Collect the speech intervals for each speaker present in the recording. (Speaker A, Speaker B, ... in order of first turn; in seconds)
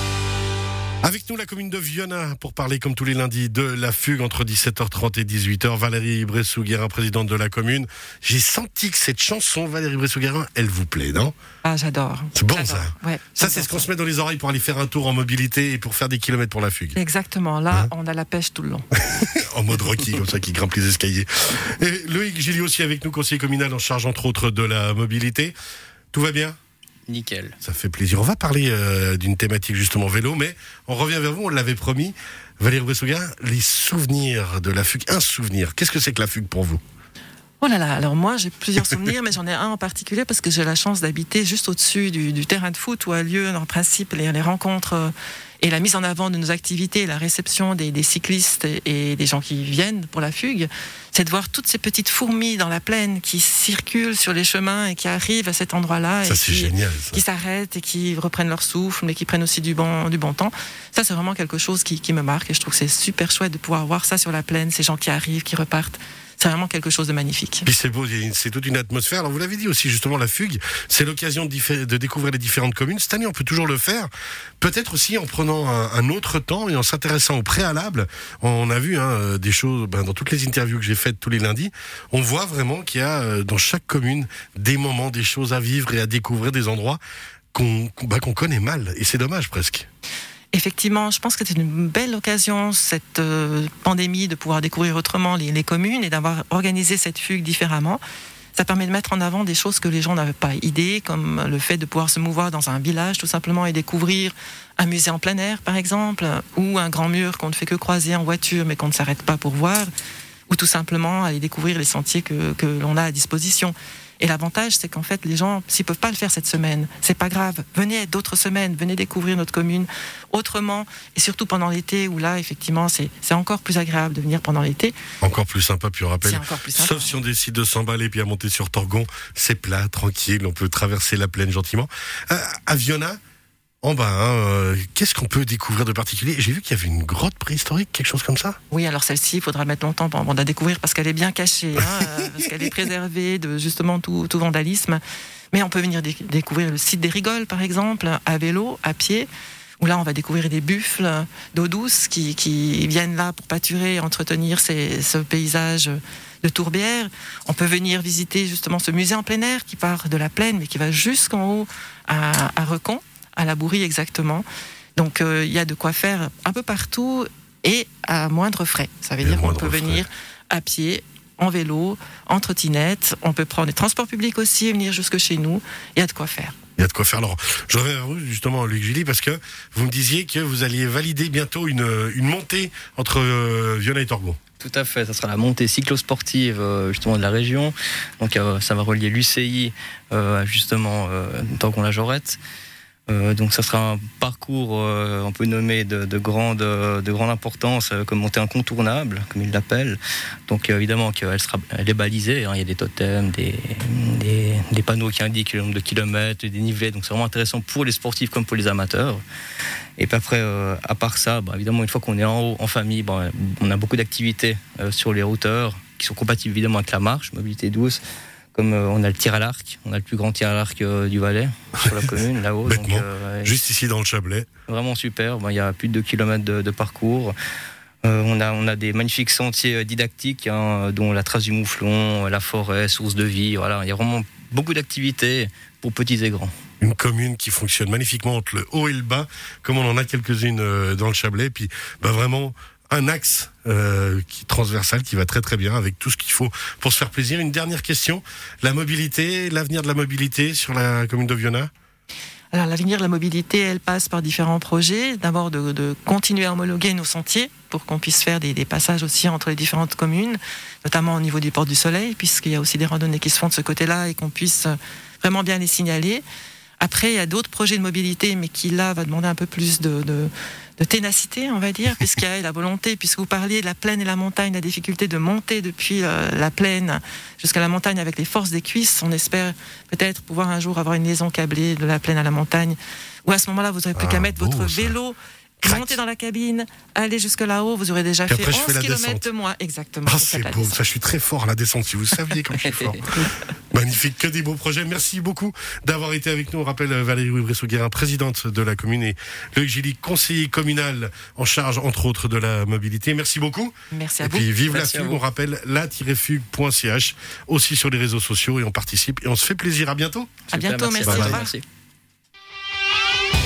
Speaker A: 1.0-11.3, 12.3-17.0, 19.0-25.5, 26.1-26.6, 27.6-36.8, 56.2-57.2, 67.6-87.0, 87.5-89.9, 125.2-133.2, 133.8-138.6, 169.2-170.0, 176.8-184.4, 222.6-224.5, 236.8-251.7, 283.9-284.9, 285.6-286.0, 288.3-289.3, 290.0-310.3, 311.0-311.4
Speaker B: 11.6-13.8, 16.9-18.9, 37.6-67.7, 90.5-98.0, 98.5-109.9, 110.5-125.0, 126.2-127.2, 138.7-145.0, 145.5-149.3, 149.8-164.4, 164.9-176.5, 252.5-266.2, 266.8-290.8, 303.9-304.5, 310.5-311.5
Speaker C: 27.1-27.5, 184.6-192.4, 193.1-209.2, 210.0-218.0, 218.5-223.6, 224.7-227.3, 228.0-236.5, 292.6-292.9, 304.7-305.2, 310.5-311.6